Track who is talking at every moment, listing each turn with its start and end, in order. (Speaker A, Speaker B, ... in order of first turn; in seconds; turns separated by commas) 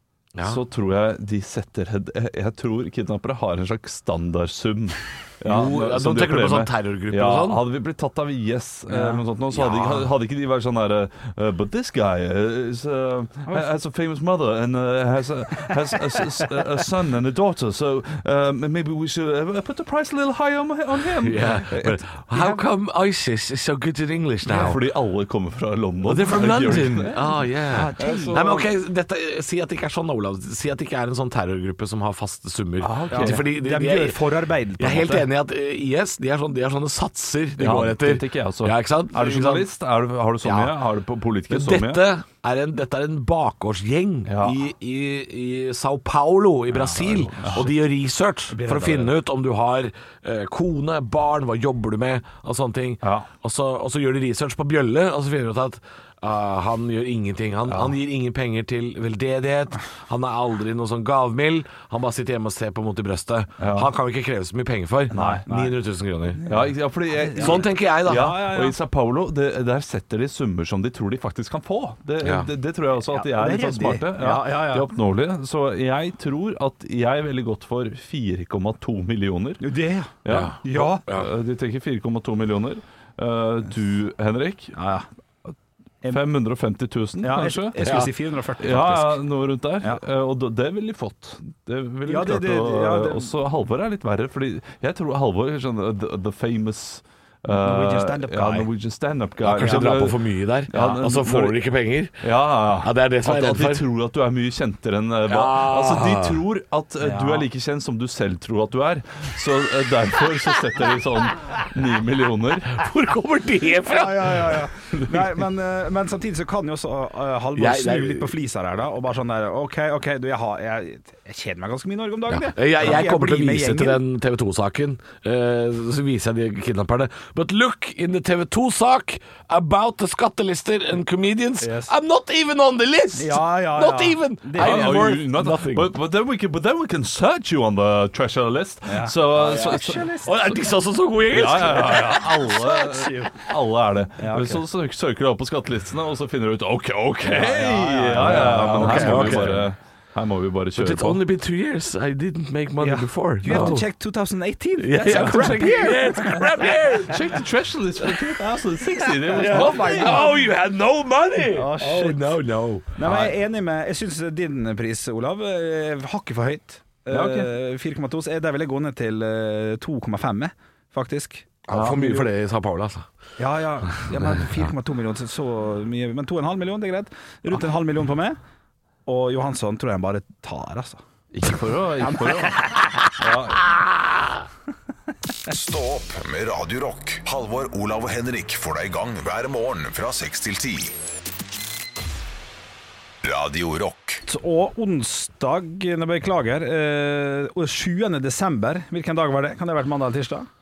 Speaker A: 0.3-0.6, Speaker B: 0.4-22.6, Speaker A: 5.5-7.6, Speaker C: 8.9-9.2, Speaker A: 9.5-10.1, Speaker A: 21.2-24.8, Speaker B: 24.5-27.2, Speaker A: 26.1-34.2, Speaker C: 27.7-28.4, Speaker B: 28.0-28.7, Speaker B: 32.8-33.4, Speaker C: 33.1-35.3, Speaker A: 34.8-39.7, Speaker B: 37.6-42.0, Speaker A: 40.4-40.8, Speaker A: 41.5-66.4, Speaker B: 44.3-44.5, Speaker C: 46.8-47.7, Speaker B: 47.4-47.7, Speaker C: 48.5-49.1, Speaker B: 53.0-53.3, Speaker B: 57.7-58.0, Speaker B: 63.6-63.9, Speaker B: 65.1-65.5, Speaker C: 65.1-65.8, Speaker C: 66.3-68.8, Speaker B: 66.5-79.6, Speaker A: 67.3-68.4, Speaker A: 72.2-72.5, Speaker C: 73.1-74.9, Speaker C: 79.6-81.0, Speaker B: 80.2-84.8, Speaker A: 80.3-81.3, Speaker C: 84.8-85.1, Speaker B: 86.1-87.9, Speaker C: 87.2-89.2, Speaker A: 87.8-88.1, Speaker B: 88.6-101.6, Speaker C: 92.1-93.3, Speaker C: 97.5-98.7, Speaker A: 99.4-102.3, Speaker C: 99.6-99.9, Speaker C: 100.7-101.0, Speaker B: 102.2-112.8, Speaker A: 102.8-103.8, Speaker A: 105.3-106.5, Speaker C: 107.0-107.5, Speaker A: 112.7-114.7, Speaker C: 113.8-124.0, Speaker A: 117.6-118.3, Speaker A: 122.3-135.9, Speaker C: 131.6-131.9, Speaker C: 133.2-135.2, Speaker B: 134.6-140.1, Speaker C: 138.9-140.5, Speaker A: 139.3-142.5, Speaker B: 141.3-151.2, Speaker C: 142.7-143.3, Speaker C: 144.2-144.6, Speaker C: 147.2-149.6, Speaker A: 148.1-149.7, Speaker A: 150.8-153.9, Speaker C: 152.8-156.8, Speaker B: 153.5-153.8, Speaker A: 154.8-157.3, Speaker B: 156.6-160.3, Speaker C: 159.0-160.5, Speaker A: 159.3-163.3, Speaker C: 161.5-162.4, Speaker C: 163.0-172.3, Speaker B: 167.1-167.5, Speaker A: 171.7-173.1, Speaker C: 173.4-178.4, Speaker C: 179.1-181.0, Speaker B: 181.3-182.6, Speaker C: 182.0-182.8, Speaker B: 183.2-183.7, Speaker D: 185.5-190.9, Speaker D: 193.2-194.2, Speaker C: 194.3-200.5